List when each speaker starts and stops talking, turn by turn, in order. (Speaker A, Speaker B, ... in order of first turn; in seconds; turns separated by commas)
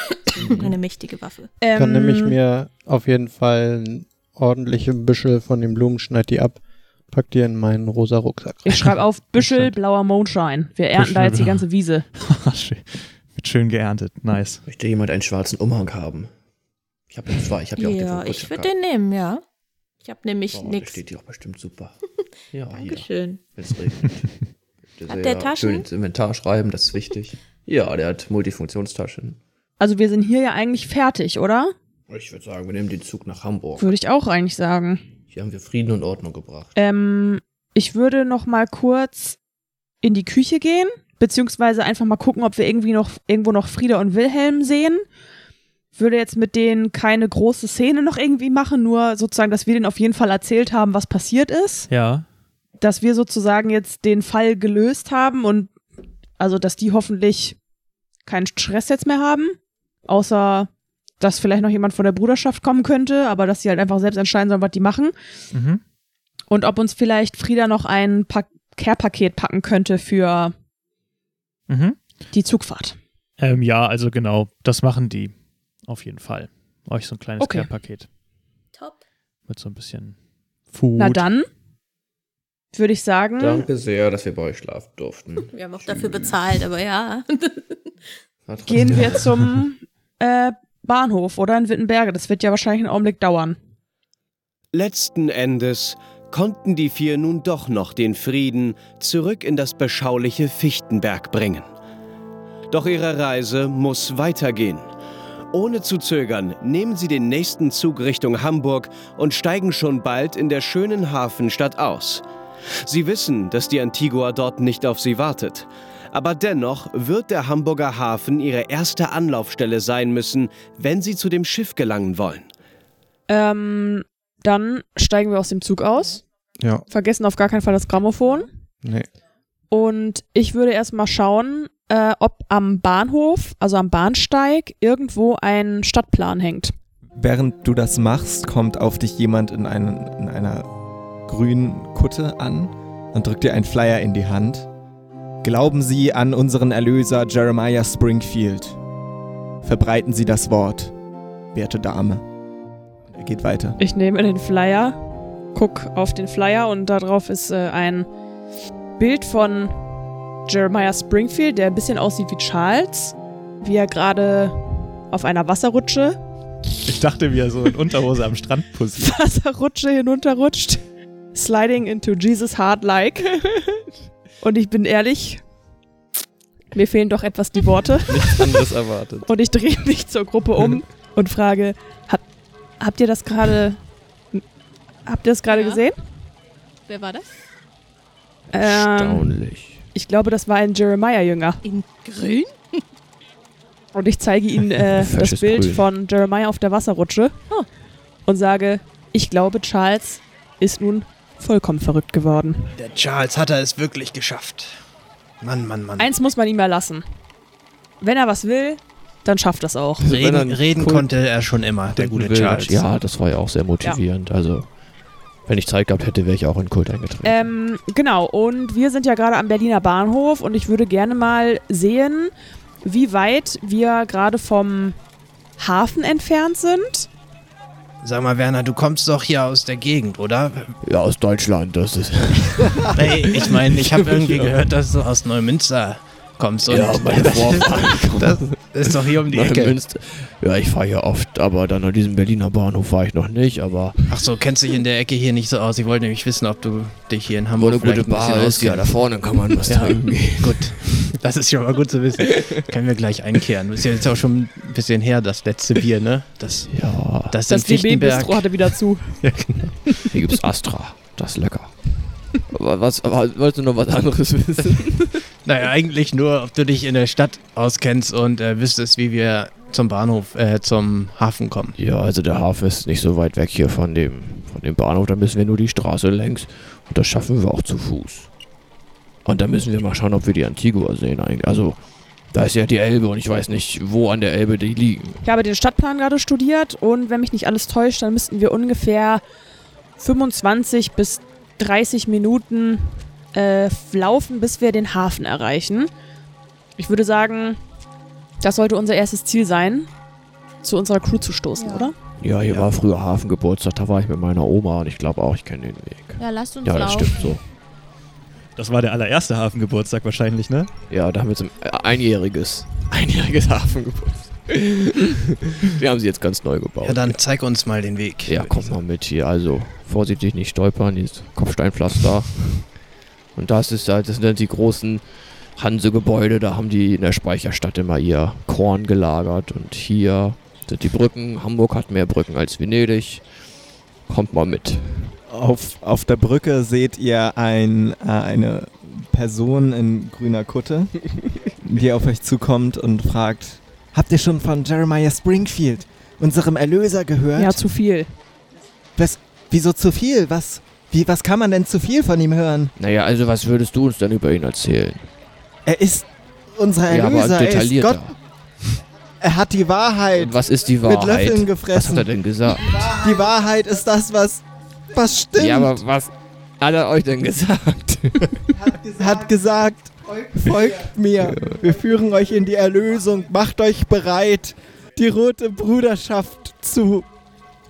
Speaker A: 0.3-1.5, Speaker B: 0.4-0.7, Speaker C: 1.6-2.4, Speaker B: 1.8-9.0, Speaker C: 8.7-12.1, Speaker D: 8.8-9.7, Speaker D: 11.0-14.6, Speaker E: 14.7-16.3, Speaker E: 17.1-18.7, Speaker A: 17.8-19.4, Speaker A: 20.0-21.0, Speaker E: 20.5-22.0, Speaker E: 22.5-29.4, Speaker A: 22.7-23.5, Speaker A: 25.1-25.9, Speaker C: 29.8-31.7, Speaker E: 32.1-33.9, Speaker C: 33.8-35.0, Speaker E: 35.3-36.7, Speaker C: 36.8-39.4, Speaker C: 40.0-45.0, Speaker C: 46.0-51.9, Speaker D: 51.9-52.3, Speaker C: 52.8-55.7, Speaker C: 56.4-57.6, Speaker C: 58.3-65.1, Speaker D: 65.5-65.8, Speaker C: 66.5-70.5, Speaker D: 71.7-72.0, Speaker C: 72.3-73.0, Speaker D: 73.4-78.1, Speaker C: 77.4-77.7, Speaker D: 79.5-80.2, Speaker D: 80.7-81.3, Speaker C: 81.0-81.5, Speaker C: 82.7-83.7, Speaker E: 83.4-86.7, Speaker A: 85.5-87.8, Speaker E: 88.5-89.5, Speaker C: 88.7-93.6, Speaker F: 94.7-101.7, Speaker F: 102.7-104.9, Speaker F: 105.5-112.2, Speaker F: 112.8-122.5, Speaker C: 123.3-126.3, Speaker B: 126.6-126.8, Speaker C: 126.9-128.5, Speaker B: 128.8-129.1, Speaker C: 129.7-136.7, Speaker G: 137.1-144.7, Speaker G: 145.4-148.8, Speaker G: 149.6-151.0, Speaker G: 151.5-152.3, Speaker G: 153.1-153.8, Speaker C: 153.8-155.0, Speaker C: 155.5-158.1, Speaker C: 159.0-159.9, Speaker C: 160.5-166.2, Speaker D: 166.8-169.2, Speaker C: 169.0-173.8, Speaker C: 174.4-175.5, Speaker C: 176.7-178.4, Speaker H: 178.1-179.3, Speaker C: 179.3-182.2, Speaker C: 182.8-183.8, Speaker C: 185.1-186.0, Speaker A: 185.5-185.8, Speaker A: 186.9-187.3, Speaker C: 188.5-189.4, Speaker H: 188.6-189.8, Speaker C: 189.9-191.6, Speaker A: 191.6-192.8, Speaker C: 193.9-197.6, Speaker H: 194.9-195.9, Speaker C: 198.3-202.8, Speaker I: 202.8-204.8, Speaker I: 205.4-206.1, Speaker C: 206.0-207.1, Speaker C: 208.0-210.0, Speaker H: 210.0-214.8, Speaker I: 210.1-212.9, Speaker H: 215.4-217.5, Speaker C: 217.2-222.3, Speaker C: 222.8-225.0, Speaker C: 225.6-227.1, Speaker I: 228.0-230.8, Speaker H: 230.8-234.7, Speaker I: 232.9-239.9, Speaker H: 236.7-244.1, Speaker I: 244.1-260.1, Speaker H: 247.6-251.0, Speaker H: 256.7-257.4, Speaker C: 257.5-259.5, Speaker H: 260.0-265.2, Speaker I: 265.4-271.8, Speaker H: 271.8-278.3, Speaker H: 279.2-285.2, Speaker C: 285.2-289.2, Speaker C: 290.0-295.9, Speaker C: 296.8-297.6, Speaker C: 298.4-299.9, Speaker C: 300.6-301.9, Speaker A: 301.6-301.9, Speaker H: 302.2-307.4, Speaker A: 306.2-307.4, Speaker D: 308.6-310.7, Speaker H: 310.9-317.3, Speaker I: 316.8-318.7, Speaker H: 318.3-322.8, Speaker H: 323.3-335.2, Speaker G: 335.3-348.0, Speaker C: 347.4-348.2, Speaker G: 348.9-352.7, Speaker H: 352.8-355.1, Speaker G: 355.6-358.1, Speaker H: 356.9-358.1, Speaker G: 359.2-365.9, Speaker H: 360.1-362.9, Speaker H: 365.4-368.4, Speaker G: 368.9-377.1, Speaker H: 371.2-371.6